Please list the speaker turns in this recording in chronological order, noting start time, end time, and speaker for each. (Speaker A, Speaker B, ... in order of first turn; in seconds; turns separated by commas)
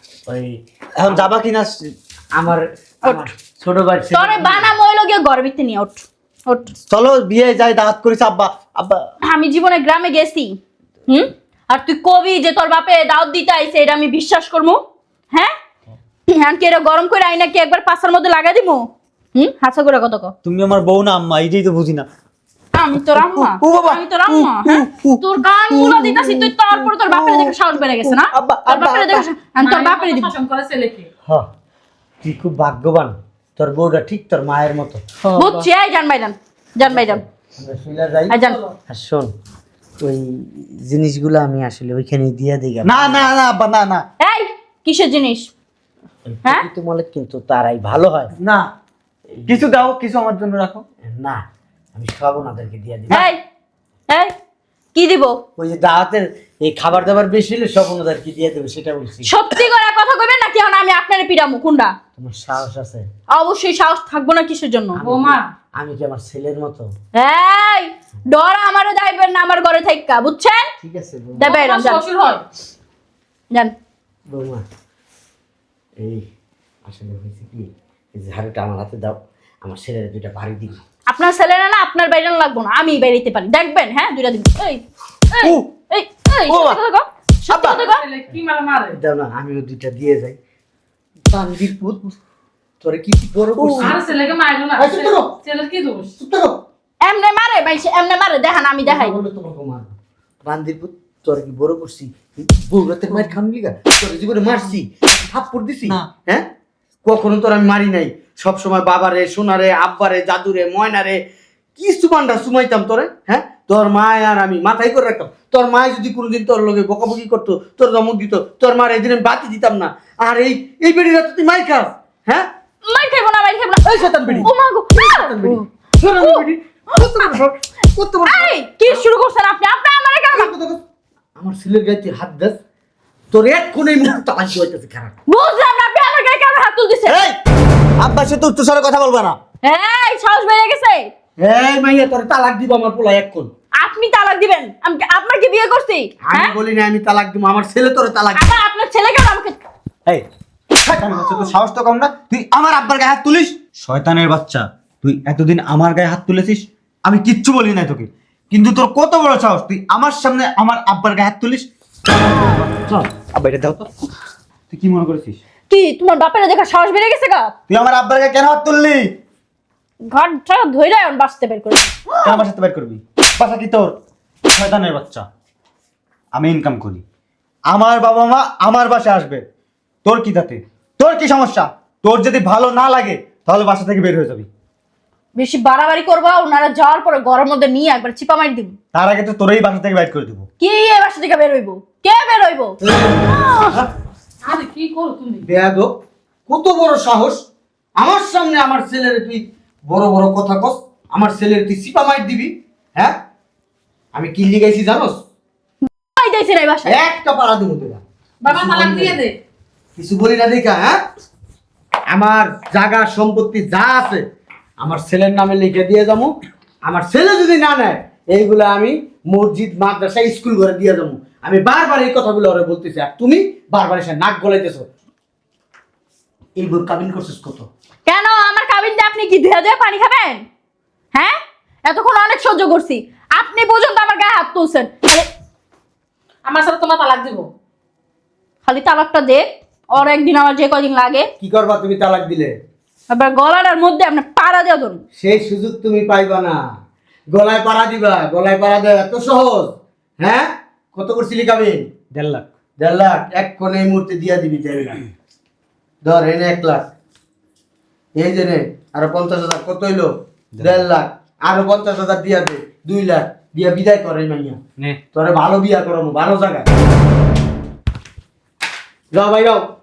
Speaker A: 0.3-1.3, Speaker B: 1.0-1.7, Speaker A: 2.3-4.7, Speaker C: 4.1-6.7, Speaker B: 6.9-9.1, Speaker C: 9.2-14.8, Speaker C: 16.3-20.3, Speaker B: 20.4-22.1, Speaker C: 22.7-30.3, Speaker B: 23.1-29.3, Speaker D: 29.6-31.1, Speaker A: 32.2-35.6, Speaker C: 35.4-37.2, Speaker A: 36.8-38.4, Speaker C: 38.3-38.6, Speaker D: 38.4-38.8, Speaker A: 38.9-39.3, Speaker A: 40.0-43.3, Speaker B: 42.8-44.0, Speaker C: 44.2-45.5, Speaker A: 46.3-48.3, Speaker B: 48.4-48.7, Speaker A: 49.3-49.6, Speaker B: 49.5-50.9, Speaker A: 51.0-51.4, Speaker A: 52.0-53.3, Speaker C: 53.1-53.4, Speaker C: 55.0-55.4, Speaker A: 55.6-59.3, Speaker C: 59.3-61.9, Speaker A: 62.2-63.1, Speaker C: 63.3-65.0, Speaker A: 65.0-66.9, Speaker D: 65.0-65.5, Speaker C: 67.1-70.7, Speaker A: 70.8-71.5, Speaker D: 71.4-72.4, Speaker C: 71.4-72.0, Speaker A: 74.3-74.6, Speaker A: 76.0-76.3, Speaker A: 76.8-80.8, Speaker C: 81.1-88.0, Speaker B: 86.5-86.8, Speaker D: 87.6-89.0, Speaker A: 88.9-90.4, Speaker A: 91.3-92.1, Speaker A: 92.8-94.0, Speaker C: 93.6-94.0, Speaker D: 93.7-96.1, Speaker A: 94.8-95.3, Speaker A: 96.2-96.6, Speaker C: 97.0-99.1, Speaker A: 98.8-106.5, Speaker A: 107.0-111.2, Speaker A: 111.8-122.5, Speaker C: 122.8-126.5, Speaker A: 123.8-129.1, Speaker C: 127.0-127.3, Speaker C: 128.3-130.5, Speaker A: 130.3-130.8, Speaker A: 131.4-132.6, Speaker A: 133.3-135.2, Speaker C: 135.3-137.2, Speaker B: 137.1-137.4, Speaker B: 138.0-139.4, Speaker C: 139.6-141.1, Speaker A: 141.4-143.5, Speaker C: 143.8-146.5, Speaker A: 146.3-148.6, Speaker C: 148.4-149.6, Speaker B: 150.8-161.7, Speaker B: 163.3-163.9, Speaker B: 164.7-165.4, Speaker C: 165.7-167.5, Speaker B: 167.7-169.1, Speaker C: 170.1-172.0, Speaker B: 172.2-173.9, Speaker B: 174.5-175.2, Speaker B: 176.3-177.0, Speaker B: 177.7-179.4, Speaker B: 180.0-184.5, Speaker C: 185.4-188.8, Speaker B: 188.9-190.5, Speaker C: 190.6-193.8, Speaker A: 192.8-193.9, Speaker D: 194.5-195.4, Speaker A: 195.4-195.9, Speaker A: 196.5-197.4, Speaker A: 198.0-203.2, Speaker A: 204.1-205.2, Speaker C: 205.8-207.0, Speaker A: 206.8-209.2, Speaker D: 208.4-209.3, Speaker A: 210.0-211.0, Speaker A: 212.1-214.2, Speaker A: 214.8-216.3, Speaker A: 216.9-224.9, Speaker A: 226.6-227.7, Speaker C: 228.1-230.4, Speaker C: 231.9-235.3, Speaker D: 236.5-237.5, Speaker C: 238.7-241.3, Speaker A: 241.4-242.5, Speaker C: 243.1-245.0, Speaker A: 245.2-246.6, Speaker A: 247.3-252.0, Speaker B: 252.1-252.4, Speaker A: 252.8-255.0, Speaker A: 256.0-256.9, Speaker A: 258.2-264.6, Speaker B: 260.5-260.9, Speaker A: 265.1-266.7, Speaker A: 269.1-269.6